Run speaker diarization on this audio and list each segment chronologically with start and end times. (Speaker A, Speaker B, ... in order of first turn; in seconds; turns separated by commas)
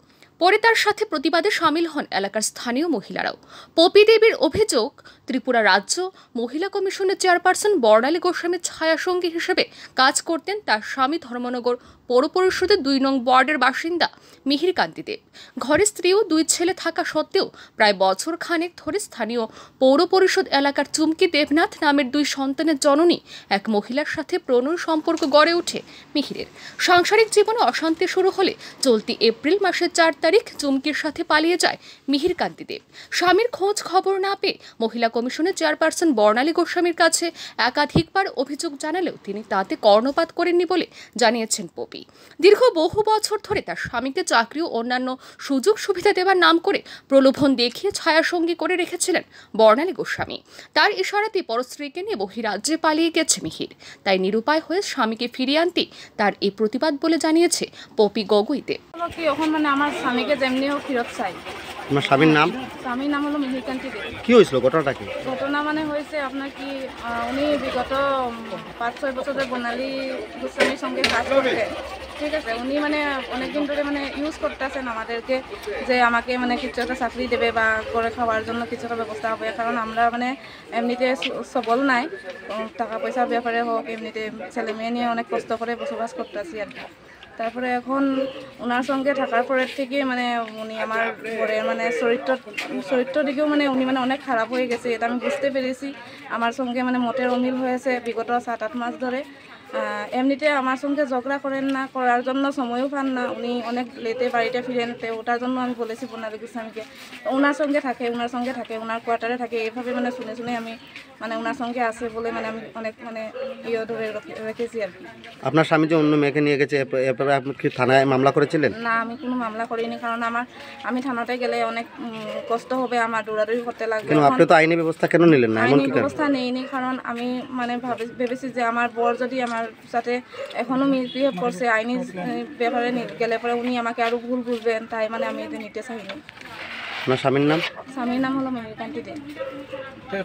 Speaker A: 0.4-58.8, Speaker B: 59.0-61.4, Speaker C: 61.9-62.6, Speaker B: 62.2-64.2, Speaker C: 64.2-65.1, Speaker B: 65.3-86.9, Speaker B: 87.4-88.0, Speaker B: 88.6-99.2, Speaker B: 99.8-115.0, Speaker C: 115.5-118.8, Speaker B: 118.8-124.5, Speaker C: 124.1-126.1, Speaker B: 125.6-136.2, Speaker C: 137.1-137.7, Speaker B: 137.9-139.2